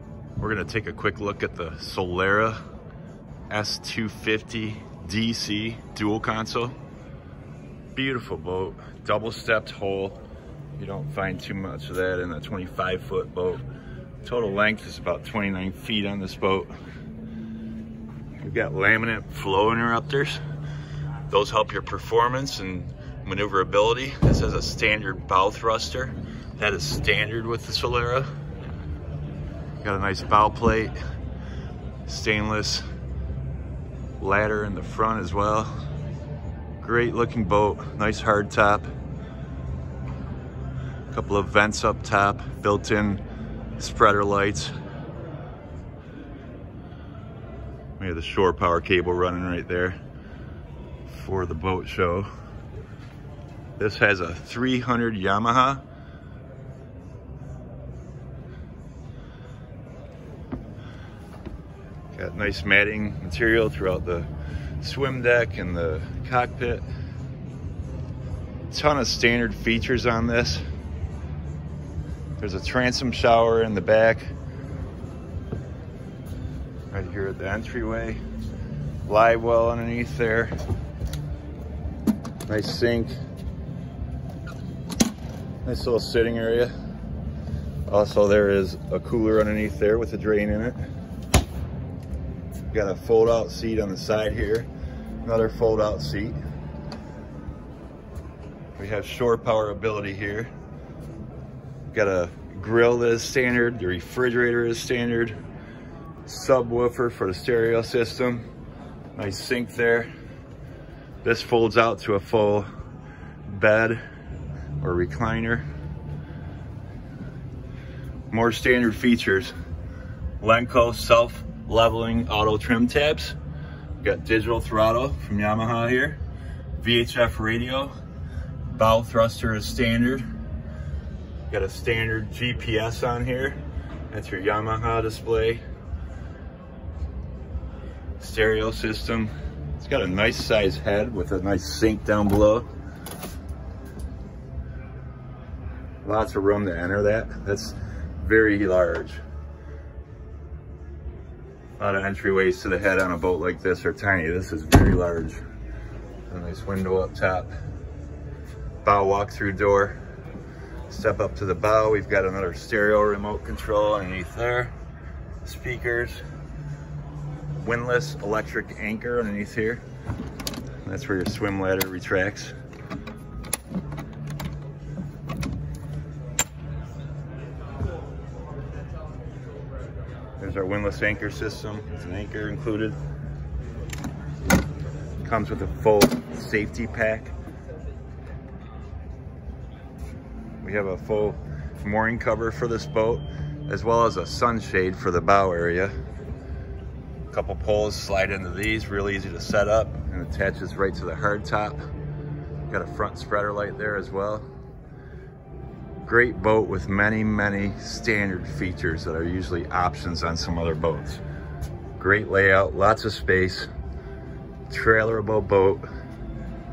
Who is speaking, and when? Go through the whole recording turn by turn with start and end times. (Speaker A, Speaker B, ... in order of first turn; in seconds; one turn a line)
Speaker A: 0.4-2.6
Speaker A: 3.5-6.7
Speaker A: 8.0-10.2
Speaker A: 10.8-13.6
Speaker A: 14.2-16.7
Speaker A: 18.4-20.4
Speaker A: 21.3-28.3
Speaker A: 29.8-30.9
Speaker A: 32.1-32.8
Speaker A: 34.2-35.7
Speaker A: 36.8-38.9
Speaker A: 41.1-43.2
Speaker A: 43.8-44.7
Speaker A: 48.0-50.0
Speaker A: 51.1-52.3
Speaker A: 53.8-55.8
Speaker A: 62.1-64.3
Speaker A: 64.8-66.8
Speaker A: 68.7-70.6
Speaker A: 72.4-74.2
Speaker A: 76.9-78.2
Speaker A: 79.0-80.5
Speaker A: 82.5-83.1
Speaker A: 85.6-86.7
Speaker A: 87.9-90.8
Speaker A: 92.7-94.7
Speaker A: 95.2-96.4
Speaker A: 98.8-100.5
Speaker A: 101.9-105.4
Speaker A: 106.2-108.4
Speaker A: 109.1-110.1
Speaker A: 111.2-112.7
Speaker A: 113.5-114.0
Speaker A: 114.8-115.6
Speaker A: 118.3-119.5
Speaker A: 120.4-123.3
Speaker A: 124.0-126.2
Speaker A: 126.8-127.9
Speaker A: 128.7-130.2
Speaker A: 131.5-133.6
Speaker A: 134.1-135.6
Speaker A: 138.2-142.7
Speaker A: 146.0-149.2
Speaker A: 151.8-155.4
Speaker A: 156.3-157.5
Speaker A: 158.8-160.0
Speaker A: 160.9-164.7
Speaker A: 165.4-166.2
Speaker A: 167.6-169.8
Speaker A: 170.8-172.5
Speaker A: 180.4-182.9
Speaker A: 185.2-187.3
Speaker A: 190.6-195.9
Speaker A: 197.3-201.8
Speaker A: 202.7-204.5
Speaker A: 206.1-211.2
Speaker A: 212.0-213.7
Speaker A: 214.7-215.8